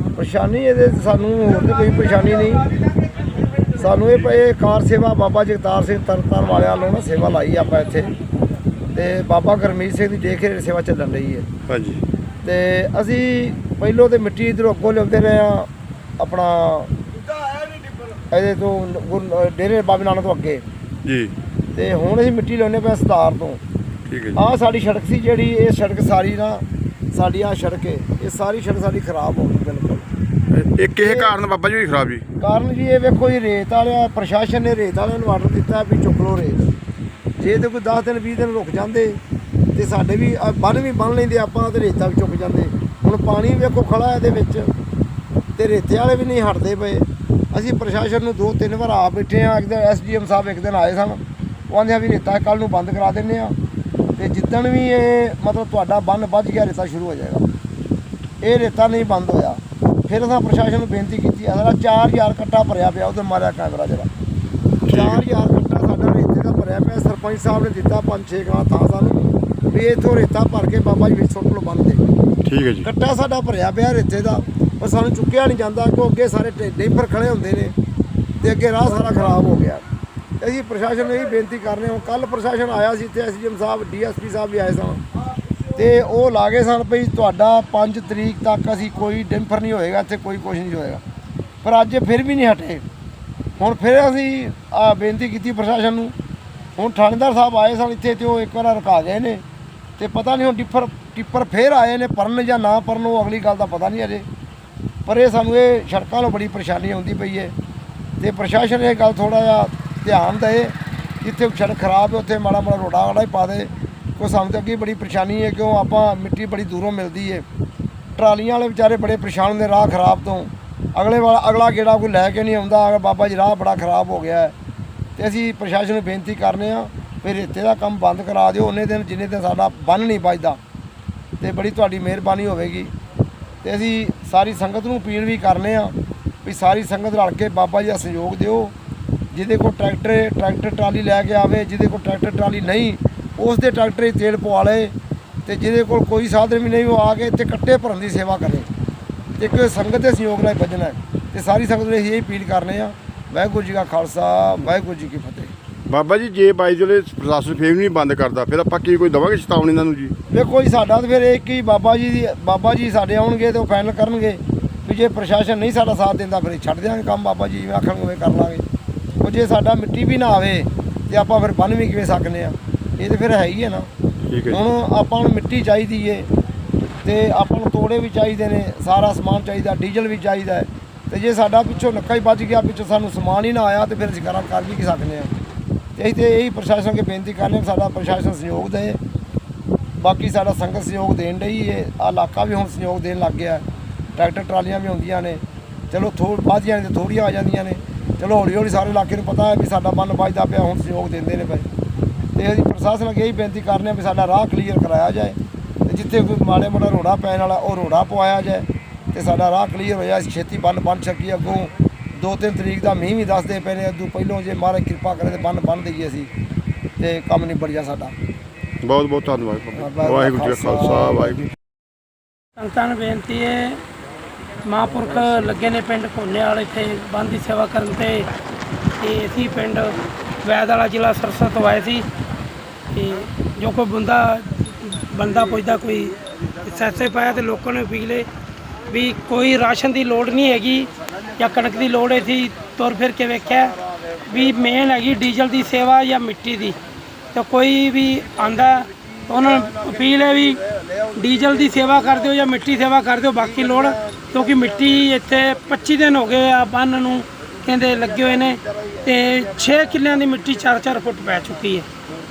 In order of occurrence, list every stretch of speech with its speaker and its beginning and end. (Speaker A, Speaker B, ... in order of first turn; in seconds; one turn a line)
Speaker A: 0.1-2.6
Speaker A: 3.8-8.1
Speaker A: 8.9-11.4
Speaker B: 11.7-12.0
Speaker A: 12.4-16.9
Speaker A: 18.3-20.6
Speaker B: 21.1-21.3
Speaker A: 21.7-23.6
Speaker B: 24.1-24.4
Speaker A: 24.4-26.6
Speaker A: 27.1-30.1
Speaker B: 30.5-32.2
Speaker A: 31.0-31.3
Speaker A: 32.4-36.7
Speaker A: 37.4-39.2
Speaker A: 39.7-44.7
Speaker A: 45.5-53.5
Speaker A: 54.2-57.4
Speaker A: 58.4-64.1
Speaker B: 64.8-65.2
Speaker A: 64.9-72.0
Speaker B: 72.4-72.9
Speaker A: 72.8-77.7
Speaker A: 78.4-79.8
Speaker A: 80.4-85.0
Speaker A: 85.8-91.0
Speaker A: 91.6-92.8
Speaker A: 93.6-96.1
Speaker A: 96.8-99.4
Speaker A: 100.0-104.2
Speaker A: 105.0-107.5
Speaker A: 108.2-117.4
Speaker A: 118.2-124.5
Speaker A: 125.2-130.6
Speaker A: 131.4-132.9
Speaker A: 133.6-138.7
Speaker A: 139.3-144.9
Speaker A: 145.4-148.7
Speaker A: 149.4-155.5
Speaker B: 155.9-160.2
Speaker A: 160.3-168.6
Speaker A: 169.2-173.9
Speaker B: 174.3-174.6
Speaker A: 174.5-176.3
Speaker A: 177.0-185.3
Speaker A: 185.9-189.0
Speaker A: 190.0-193.6
Speaker A: 194.2-201.7
Speaker A: 202.3-216.3
Speaker A: 217.0-218.1
Speaker B: 218.8-221.5
Speaker A: 219.8-221.5
Speaker C: 222.6-223.8
Speaker C: 224.6-228.3
Speaker C: 229.0-232.1
Speaker C: 232.9-238.3
Speaker C: 238.9-243.7
Speaker A: 243.6-244.7
Speaker C: 244.2-246.8
Speaker C: 247.3-250.6
Speaker A: 249.3-252.4
Speaker C: 251.1-261.9
Speaker A: 253.3-255.2
Speaker A: 257.8-260.4